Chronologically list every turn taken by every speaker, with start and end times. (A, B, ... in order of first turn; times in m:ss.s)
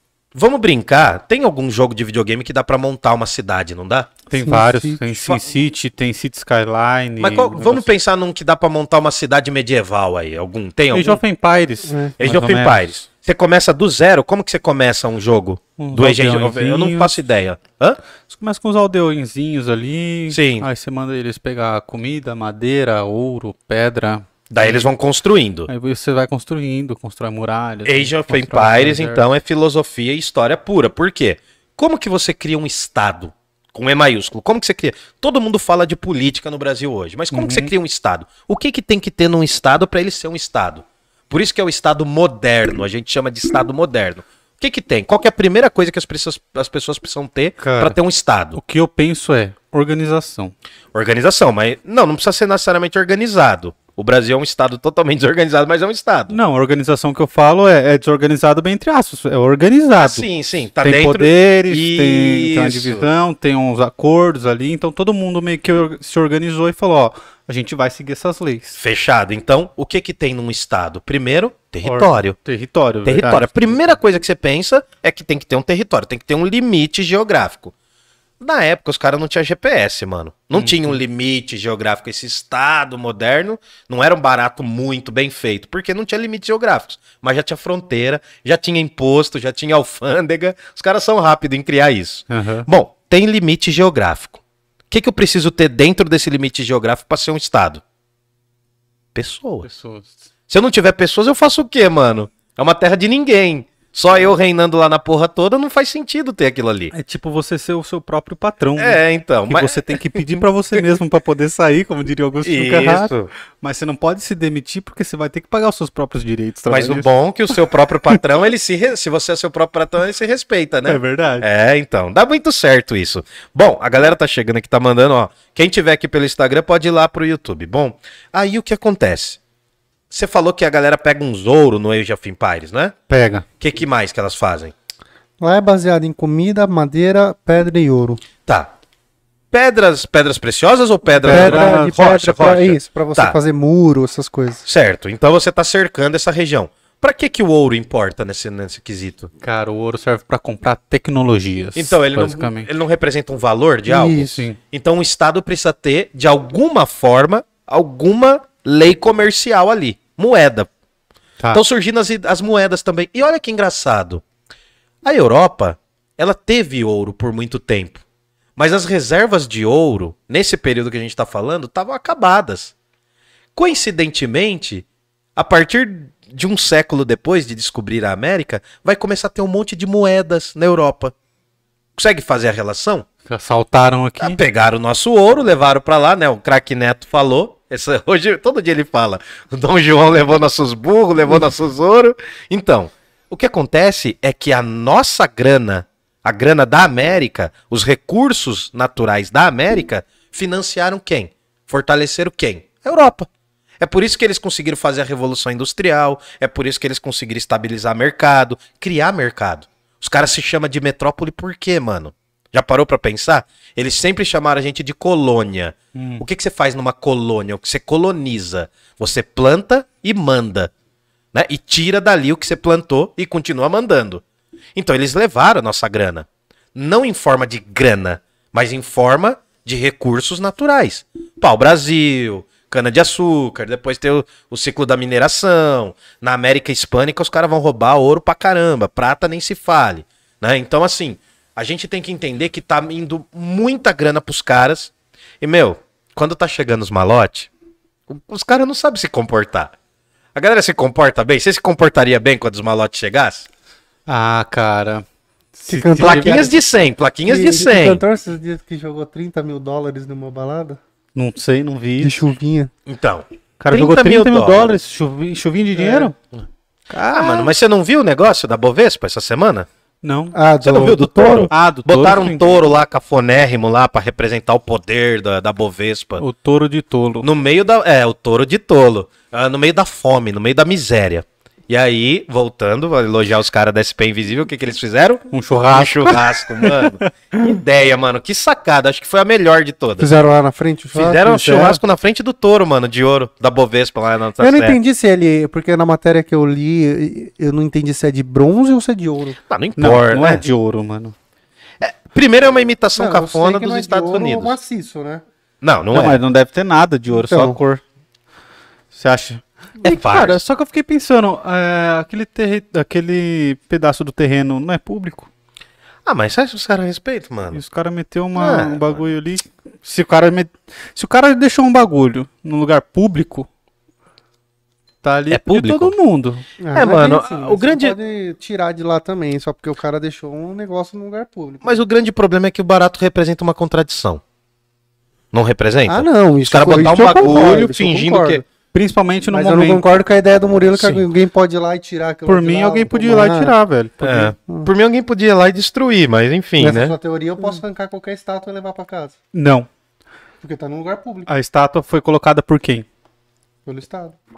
0:00.3-0:04.1 A
0:04.3-0:07.9 B
0:04.4-0:05.0 C
0:07.2-0:11.2 A
0:10.9-0:12.9 B
0:11.9-0:12.1 C
0:12.2-0:18.0 A
0:15.8-0:17.2 B
0:18.3-0:24.9 B
0:20.3-0:20.7 A
0:24.5-0:25.7 A
0:25.7-0:29.2 B
0:27.8-0:48.6 A
0:37.3-0:37.7 B
0:47.6-0:48.0 B
0:48.6-0:50.5 B
0:50.9-0:56.4 A
0:56.3-1:00.2 B
1:00.0-1:03.1 A
1:00.8-1:08.8 B
1:08.8-1:12.4 A
1:11.8-1:13.5 B
1:13.0-1:17.7 A
1:18.4-1:34.4 A
1:20.6-1:20.9 B
1:32.3-1:32.7 B
1:34.9-1:37.8 A
1:39.1-1:39.7 A
1:39.6-1:40.2 B
1:40.5-1:46.9 A
1:46.9-1:57.5 B
1:48.8-1:50.2 A
1:52.4-1:53.3 A
1:56.7-2:09.4 A
2:00.9-2:01.5 B
2:10.1-2:13.0 A
2:13.1-2:13.4 B
2:13.6-2:14.7 A
2:15.4-2:18.2 C
2:18.5-2:18.7 A
2:19.5-2:23.4 A
2:21.2-2:24.6 C
2:21.2-2:22.0 B
2:24.7-2:29.3 A
2:29.4-2:32.7 B
2:31.8-2:40.7 A
2:33.9-2:34.4 C
2:34.1-2:34.6 B
2:41.5-2:44.2 A
2:45.0-2:48.0 A
2:48.6-2:52.7 A
2:53.6-3:01.1 A
3:02.0-3:03.1 A
3:03.3-3:04.4 B
3:04.2-3:23.3 A
3:23.8-3:40.7 A
3:36.0-3:36.2 B
3:41.3-3:44.2 A
3:44.8-4:07.5 A
4:08.1-4:09.7 A
4:10.4-4:13.5 A
4:14.1-4:15.1 B
4:15.6-4:16.5 B
4:15.7-4:16.6 C
4:16.0-4:18.0 A
4:17.2-4:20.8 C
4:21.1-4:22.2 B
4:22.0-4:22.7 C
4:22.9-4:24.7 A
4:23.6-4:26.1 B
4:25.8-4:26.1 C
4:26.9-4:27.5 B
4:27.1-4:29.7 A
4:30.0-4:30.4 B
4:30.3-4:31.5 C
4:30.6-4:36.2 A
4:31.5-4:32.4 B
4:36.2-4:37.3 B
4:37.2-4:50.1 A
4:45.3-4:47.4 B
4:50.0-4:51.8 C
4:50.9-4:54.8 A
4:54.4-4:59.4 C
4:59.5-5:00.4 A
4:59.8-5:01.1 B
5:01.8-5:04.6 A
5:03.0-5:05.2 C
5:05.6-5:06.2 A
5:05.9-5:07.8 B
5:07.2-5:07.6 C
5:08.9-5:15.3 B
5:09.8-5:10.4 A
5:16.1-5:17.6 A
5:17.5-5:23.5 B
5:18.4-5:19.0 A
5:25.0-5:26.4 B
5:25.3-5:25.9 A
5:26.6-5:31.8 C
5:26.8-5:28.0 A
5:31.6-5:34.2 A
5:35.3-5:38.4 A
5:35.9-5:38.4 C
5:38.7-5:39.8 B
5:39.3-5:43.5 C
5:40.8-5:41.0 A
5:42.3-5:44.3 B
5:44.0-5:47.0 A
5:46.6-5:49.2 C
5:49.3-5:49.7 B
5:50.4-5:51.3 C
5:51.3-5:52.8 B
5:53.7-5:54.2 C